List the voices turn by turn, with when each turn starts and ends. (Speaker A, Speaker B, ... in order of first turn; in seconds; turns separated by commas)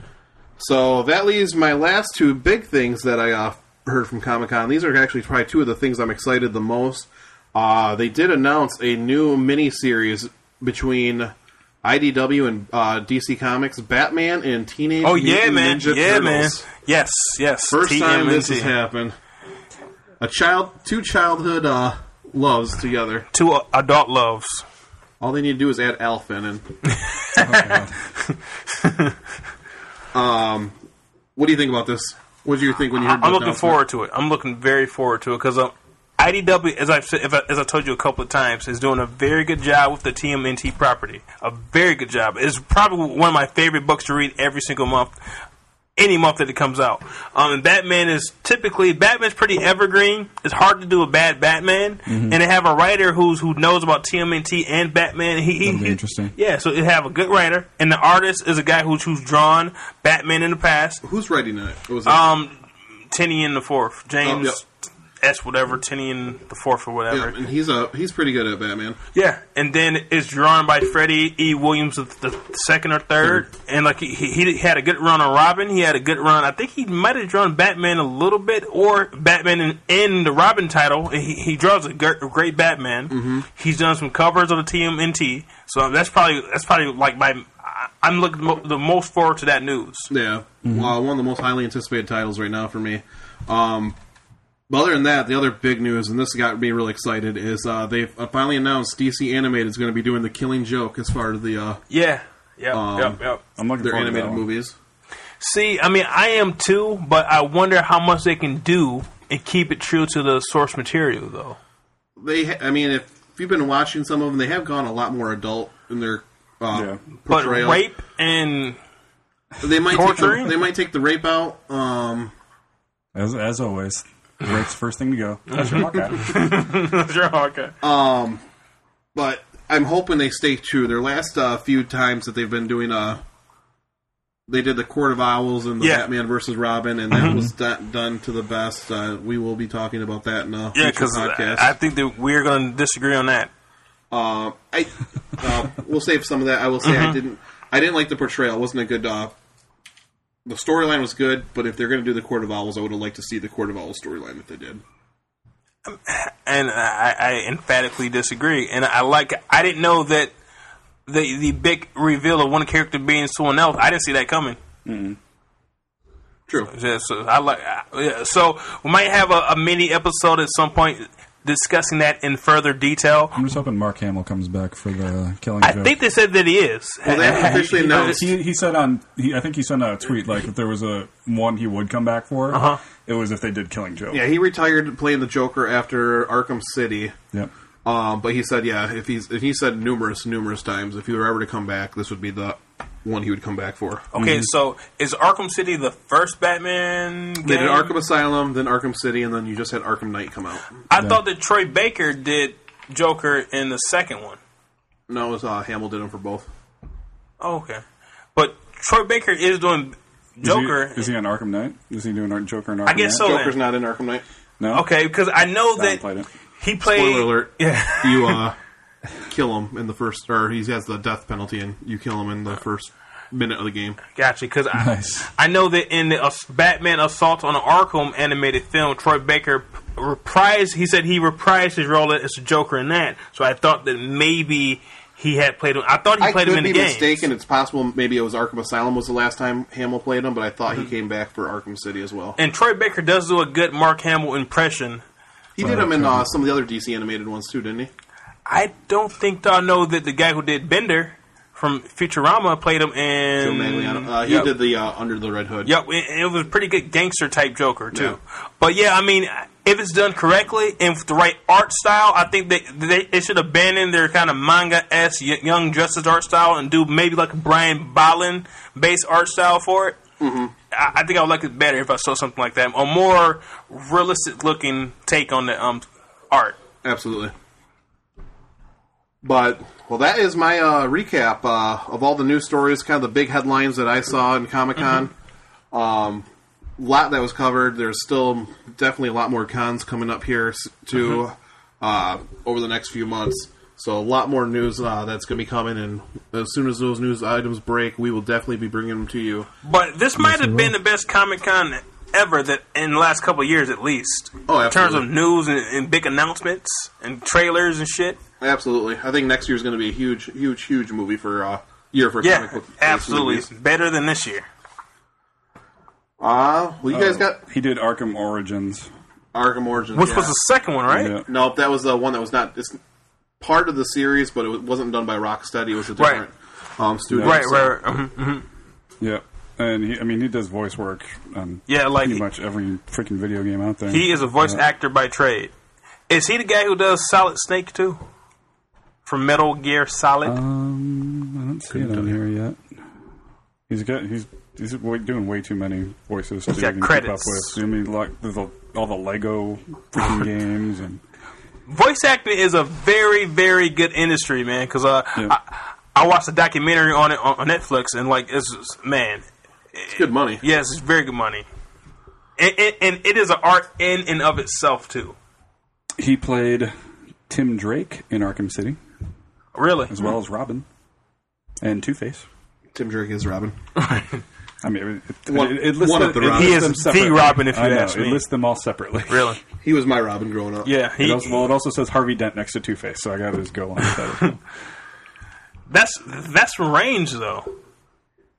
Speaker A: 0.6-16.6, Speaker B: 15.0-18.7, Speaker A: 17.7-19.1, Speaker A: 20.2-23.3, Speaker B: 23.3-24.6, Speaker A: 25.2-26.8, Speaker B: 26.9-29.1, Speaker C: 27.4-28.0, Speaker A: 30.1-30.8, Speaker A: 31.4-33.8, Speaker B: 32.9-45.1, Speaker B: 46.0-61.0, Speaker C: 52.1-52.4, Speaker C: 55.6-56.3, Speaker A: 61.0-62.2, Speaker B: 62.0-62.5, Speaker B: 63.1-64.7, Speaker A: 64.2-64.6, Speaker B: 65.2-67.3, Speaker A: 67.1-69.0, Speaker B: 69.1-90.1, Speaker A: 83.1-83.5, Speaker A: 90.1-94.0, Speaker C: 90.6-90.9, Speaker A: 94.7-101.8, Speaker B: 101.9-103.4, Speaker A: 102.7-103.2, Speaker C: 103.6-104.5, Speaker A: 103.8-104.8, Speaker B: 105.4-111.6, Speaker A: 112.2-117.8, Speaker C: 116.7-117.0, Speaker B: 117.3-118.8, Speaker A: 119.6-122.3, Speaker B: 119.9-120.5, Speaker C: 123.1-126.3, Speaker B: 125.5-127.7, Speaker A: 127.8-128.4, Speaker A: 129.1-133.2, Speaker A: 134.5-141.7, Speaker B: 135.8-136.1, Speaker C: 137.1-137.5, Speaker B: 140.7-143.5, Speaker A: 144.1-149.3, Speaker B: 146.8-147.2, Speaker A: 150.4-154.8, Speaker B: 155.8-160.3, Speaker B: 161.1-164.6, Speaker C: 164.8-165.2, Speaker B: 166.7-173.3, Speaker C: 173.3-175.9, Speaker B: 175.6-178.2, Speaker A: 177.0-178.3, Speaker C: 177.2-184.2, Speaker B: 182.5-182.8, Speaker A: 184.1-187.1, Speaker A: 187.8-194.1, Speaker B: 194.1-197.9, Speaker C: 194.2-194.5, Speaker A: 197.4-200.7, Speaker B: 200.9-204.4, Speaker A: 205.1-206.5, Speaker B: 207.4-207.8, Speaker B: 208.3-211.1, Speaker C: 210.4-213.2, Speaker B: 212.8-213.6, Speaker A: 213.2-214.2, Speaker C: 214.6-214.8, Speaker B: 214.7-216.0, Speaker C: 215.8-216.3, Speaker B: 216.6-218.4, Speaker A: 216.8-218.6, Speaker A: 219.3-224.0, Speaker B: 224.1-237.3, Speaker C: 224.8-225.3, Speaker A: 236.2-242.4, Speaker B: 242.4-245.0, Speaker A: 245.6-247.9, Speaker C: 245.6-246.3, Speaker B: 248.4-254.5, Speaker A: 253.4-255.7, Speaker B: 255.6-270.0, Speaker A: 257.9-258.2, Speaker A: 270.2-270.5, Speaker B: 270.7-276.6, Speaker A: 276.8-277.3, Speaker A: 279.2-285.1, Speaker A: 285.7-299.5, Speaker B: 299.6-308.2, Speaker C: 300.2-300.7, Speaker A: 304.5-305.1, Speaker A: 308.4-313.5, Speaker B: 312.2-314.5, Speaker A: 316.2-317.4, Speaker C: 316.9-318.9, Speaker A: 319.3-320.3, Speaker B: 319.9-321.1, Speaker C: 320.9-321.3, Speaker A: 321.2-322.8, Speaker A: 323.4-327.8, Speaker B: 326.0-326.2, Speaker C: 327.1-327.4, Speaker B: 327.2-328.4, Speaker C: 329.0-334.6, Speaker B: 331.7-332.2, Speaker B: 333.9-335.5, Speaker B: 336.1-338.0, Speaker B: 339.1-340.3, Speaker C: 340.2-342.6, Speaker A: 341.7-342.2, Speaker C: 343.7-351.0, Speaker B: 346.5-347.6, Speaker B: 351.7-361.4, Speaker A: 359.9-360.4, Speaker B: 362.4-365.1, Speaker C: 366.0-366.7, Speaker C: 367.3-368.8, Speaker B: 369.5-369.9, Speaker C: 369.9-370.6, Speaker C: 371.6-372.3, Speaker A: 372.7-373.6, Speaker B: 373.8-374.2, Speaker C: 374.6-379.4, Speaker A: 375.3-376.7, Speaker B: 376.3-378.2, Speaker B: 379.1-379.4, Speaker A: 379.6-380.7, Speaker B: 380.6-381.5, Speaker C: 381.0-384.4, Speaker B: 385.7-387.5